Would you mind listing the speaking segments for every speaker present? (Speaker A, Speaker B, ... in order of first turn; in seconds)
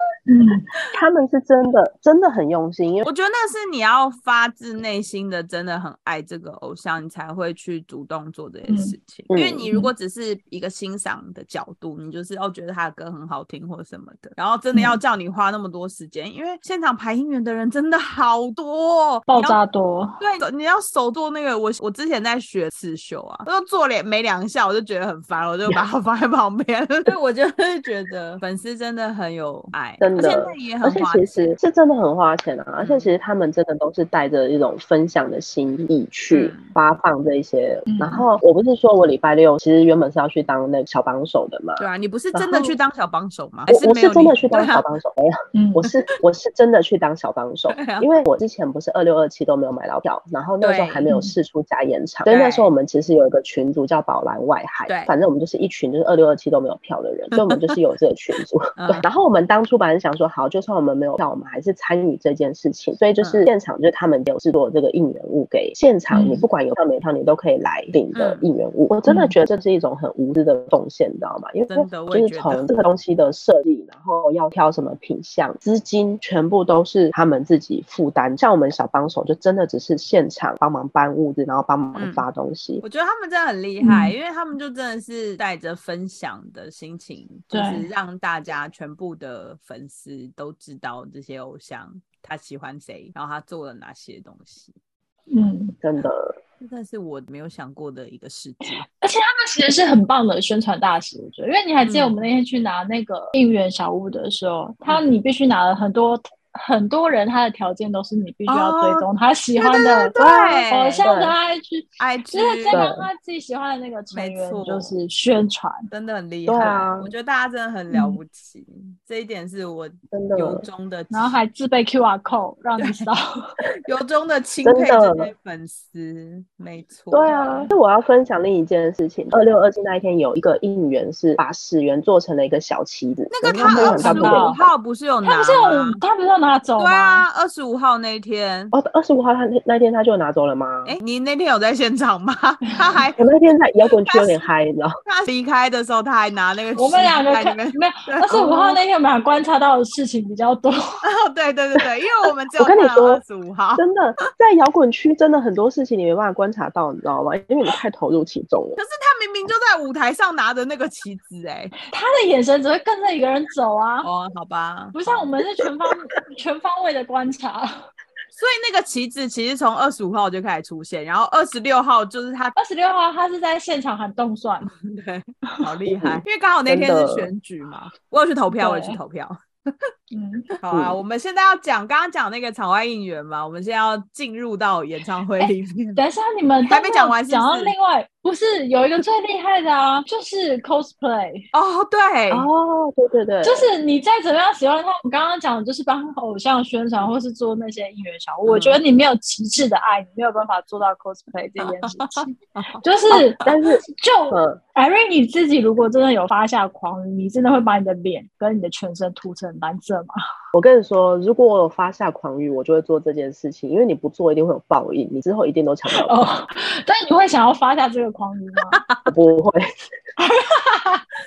Speaker A: 0.3-0.7, 8.7-8.9, 14.7-15.0, 19.3-20.2, 37.9-38.2, 45.5-45.9, 51.1-51.3, 66.1-66.4, 69.1-69.3, 83.8-84.1, 87.5-87.9, 95.3-95.8, 99.0-115.9, 117.9-118.2, 121.1-123.5, 127.3-127.7, 133.7-134.6, 135.2-137.2, 142.7-143.0, 146.8-151.0, 161.9-164.1, 164.9-167.9, 172.6-174.7, 178.6-179.0, 180.1-180.5, 185.4-191.4, 193.4-203.4, 204.0-210.1, 215.9-218.8, 220.2-221.1
Speaker B: 0.9-3.1, 9.3-9.7, 30.0-42.7, 43.7-82.8, 95.8-96.4, 110.2-111.3, 112.7-113.1, 116.5-117.1, 120.1-120.7, 124.6-125.3, 127.1-134.7, 138.7-141.0, 143.2-145.0, 152.6-153.2, 153.8-158.8, 175.9-177.3, 180.7-181.0, 192.3-193.7, 203.1-204.6, 210.5-216.2, 219.1-219.7
Speaker C: 3.0-19.6, 20.2-31.5, 32.8-33.1, 36.3-36.7, 41.8-44.8, 47.7-48.1, 50.6-51.0, 52.3-52.7, 54.9-55.1, 57.4-57.8, 58.8-59.1, 63.2-63.5, 68.2-68.5, 71.7-72.7, 82.0-82.2, 82.8-94.7, 96.6-98.8, 101.8-102.1, 108.5-111.1, 112.0-112.8, 114.1-114.9, 115.9-121.4, 122.8-123.1, 123.8-127.4, 133.3-136.0, 136.8-138.7, 140.8-143.2, 144.1-144.5, 145.1-148.8, 151.0-153.8, 158.8-161.7, 164.0-165.2, 168.3-172.6, 174.6-179.4, 180.6-186.0, 186.7-187.7, 191.5-192.5, 198.5-198.8, 201.6-202.8, 218.7-219.1